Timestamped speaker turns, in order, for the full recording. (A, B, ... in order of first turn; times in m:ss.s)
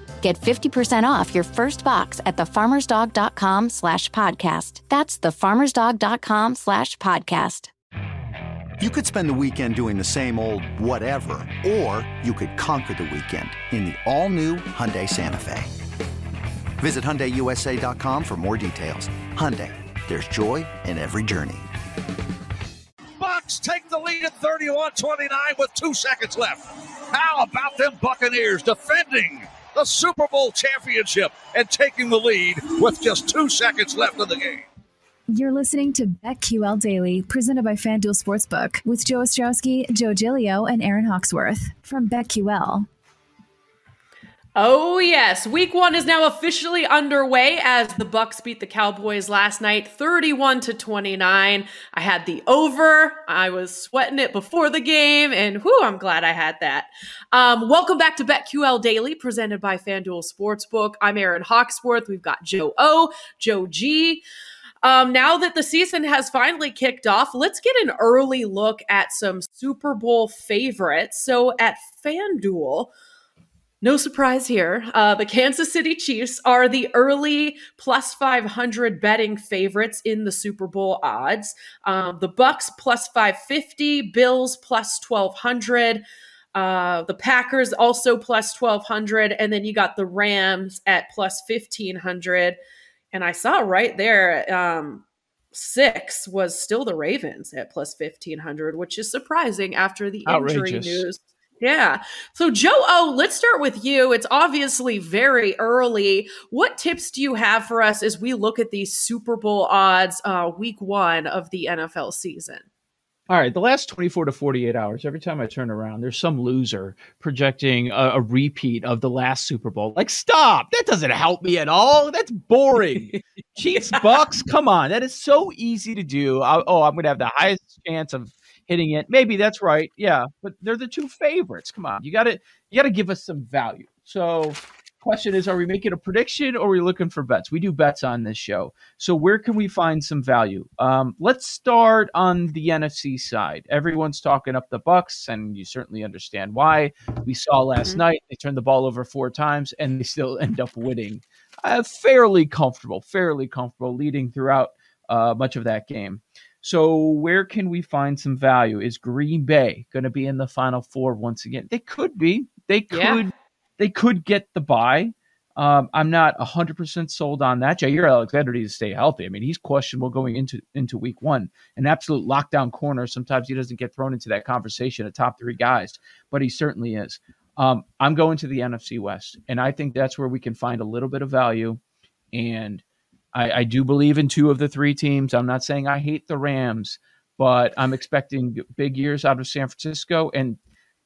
0:00.2-0:07.7 A
0:08.8-0:15.7 B
0:16.8-0:21.7 B
0:23.2-0:34.7 C
0:35.3-0:42.9 D
0:44.6-1:04.2 E
1:04.8-1:12.9 E
1:13.8-1:26.0 E
1:26.6-1:32.6 E
1:33.1-1:52.6 E
1:40.3-1:41.1 F
1:53.3-3:01.8 F
2:42.9-2:43.3 E
3:02.3-3:02.8 F
3:03.3-3:10.6 F